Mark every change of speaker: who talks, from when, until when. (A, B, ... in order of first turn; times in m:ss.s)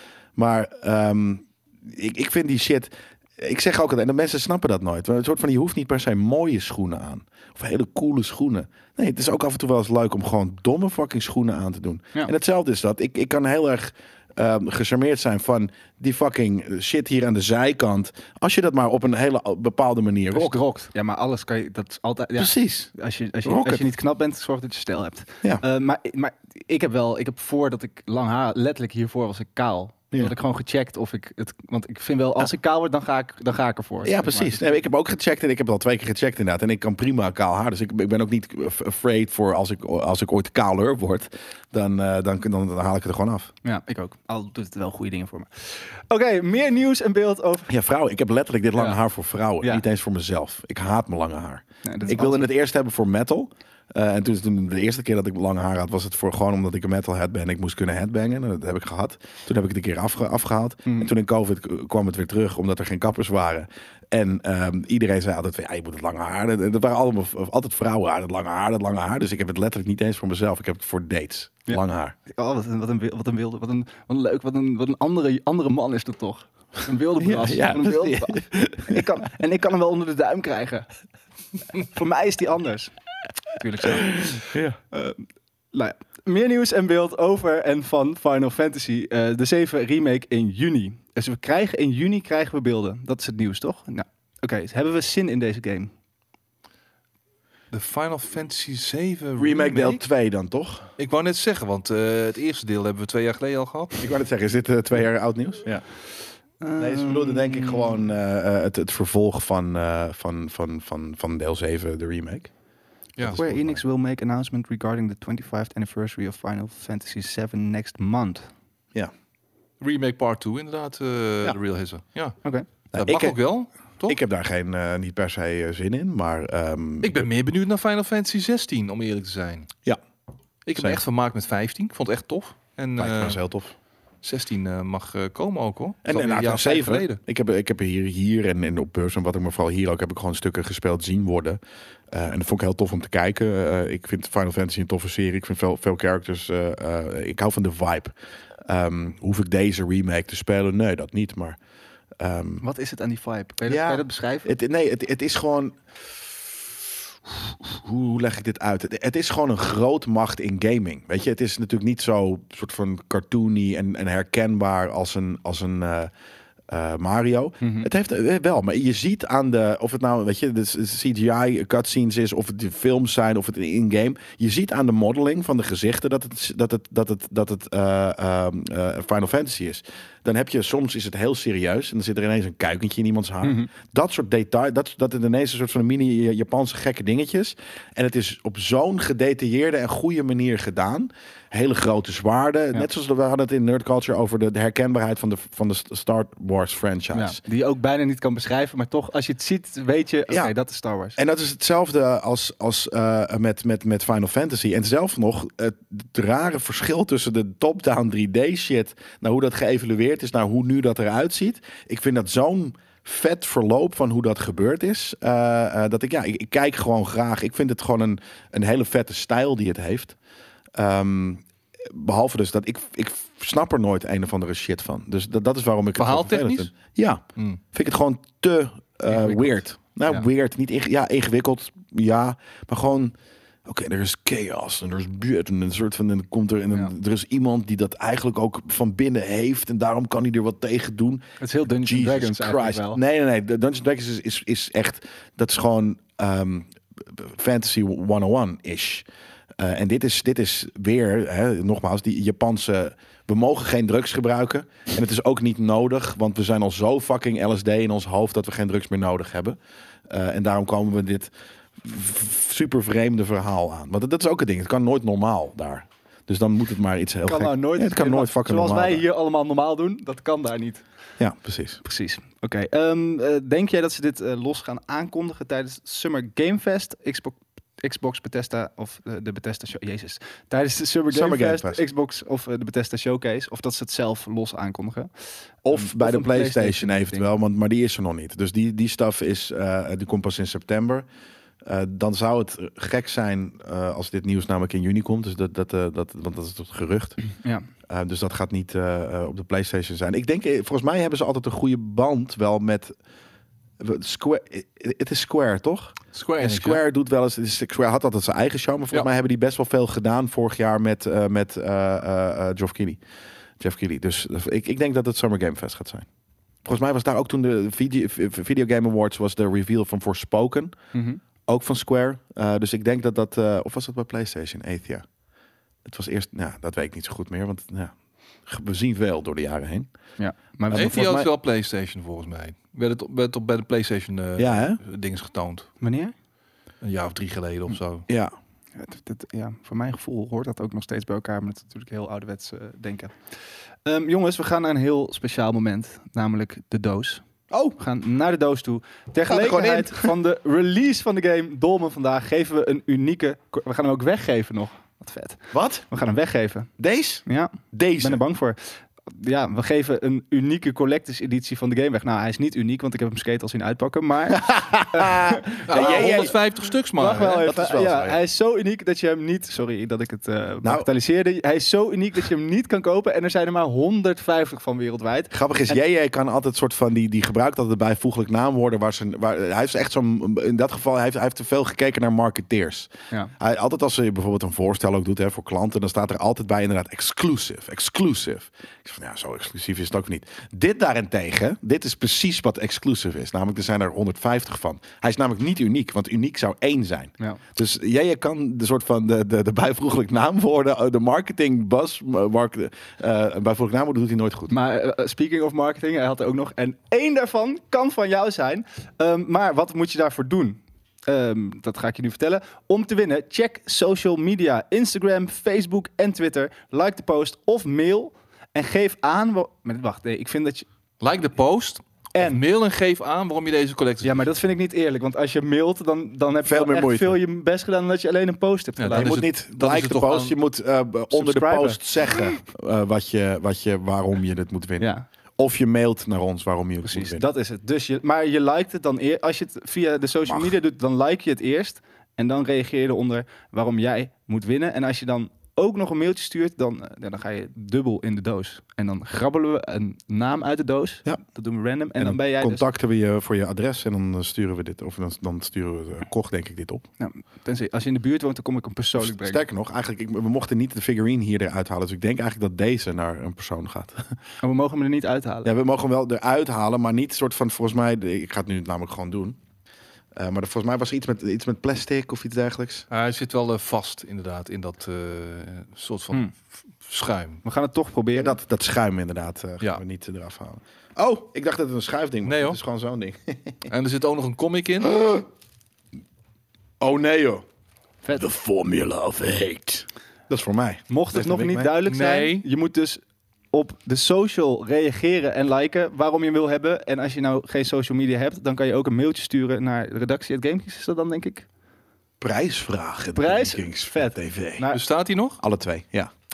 0:00.4-0:20.6 A
0:20.3-0:34.8 B
0:22.4-0:22.9 A
0:23.4-0:23.9 A
0:34.0-0:43.5 A
0:43.6-0:47.7 B
0:47.7-1:12.2 A
0:48.8-0:49.0 B
0:51.8-0:52.5 B
1:00.8-1:01.1 B
1:11.7-1:20.9 B
1:17.2-1:19.1 A
1:21.7-1:22.9 B
1:23.5-1:35.9 B
1:24.2-1:24.8 A
1:37.7-1:40.0 C
1:39.4-1:40.8 A
1:41.0-1:44.1 C
1:44.0-1:45.8 A
1:46.6-1:48.0 B
1:46.8-1:52.5 A
1:53.2-1:53.8 A
1:53.4-1:58.5 B
1:59.8-2:02.4 C
2:02.9-2:03.4 A
2:03.0-2:04.2 C
2:04.0-2:07.3 A
2:07.0-2:09.7 C
2:10.6-2:13.4 C
2:13.0-2:13.7 A
2:14.2-2:17.2 C
2:16.0-2:21.6 A
2:22.1-2:28.1 A
2:28.7-2:31.6 A
2:32.2-2:32.6 A
2:32.6-2:34.5 B
2:33.7-2:35.8 A
2:37.3-2:46.1 A
2:46.7-3:17.4 A
2:47.6-2:47.9 B
3:03.4-3:03.7 B
3:17.1-3:21.2 B
3:21.2-3:40.2 A
3:40.8-3:47.2 A
3:46.0-3:46.7 C
3:47.7-3:53.1 A
3:49.1-3:49.4 C
3:53.7-4:01.2 A
4:01.4-4:03.0 B
4:01.8-4:09.1 A
4:09.6-4:19.6 A
4:20.1-4:29.0 A
4:27.3-4:30.8 B
4:31.2-4:31.8 A
4:31.8-4:45.1 B
4:41.1-4:41.8 A
4:45.6-4:51.1 A
4:45.7-4:47.3 B
4:51.6-4:57.2 A
4:57.4-4:57.7 B
4:57.9-5:02.9 A
5:03.8-5:13.0 A
5:06.1-5:06.8 C
5:13.6-5:16.1 A
5:16.6-5:20.7 A
5:20.9-5:21.2 B
5:21.5-5:25.1 A
5:25.8-5:29.9 A
5:30.2-5:31.1 B
5:30.7-5:31.3 A
5:30.7-5:35.7 C
5:34.4-5:34.8 A
5:35.8-5:36.1 B
5:36.8-5:38.1 C
5:38.1-5:38.3 A
5:38.8-5:43.2 B
5:43.8-5:47.2 B
5:47.5-5:47.8 A
5:47.8-5:56.7 B
5:49.3-5:50.1 A
5:55.5-5:55.8 A
5:56.8-5:58.2 A
5:57.3-6:06.3 B
6:04.3-6:06.4 A
6:05.6-6:07.5 C
6:07.0-6:15.8 B
6:07.4-6:08.2 A
6:10.6-6:10.9 A
6:15.3-6:44.5 A
6:44.5-7:00.7 B
7:01.0-7:04.2 C
7:02.1-7:02.4 B
7:04.0-7:09.2 B
7:06.4-7:07.2 A
7:08.8-7:10.3 C
7:08.9-7:17.2 A
7:11.1-7:12.2 B
7:14.8-7:15.1 B
7:16.8-7:32.6 B
7:32.0-7:36.8 A
7:37.0-7:39.4 B
7:39.0-7:44.2 A
7:44.4-7:45.5 B
7:45.4-7:49.4 A
7:50.1-7:52.9 A
7:52.9-7:56.3 C
7:56.8-7:57.4 C
7:57.4-7:58.4 B
7:58.2-8:03.6 A
8:02.2-8:02.6 C
8:03.7-8:05.0 C
8:04.8-8:05.3 A
8:06.8-8:07.4 A
8:08.2-8:11.7 A
8:10.9-8:13.0 B
8:11.8-8:12.4 C
8:13.5-8:21.5 B
8:22.2-8:24.6 A
8:23.2-8:24.8 B
8:24.7-8:25.4 C
8:25.4-8:26.1 A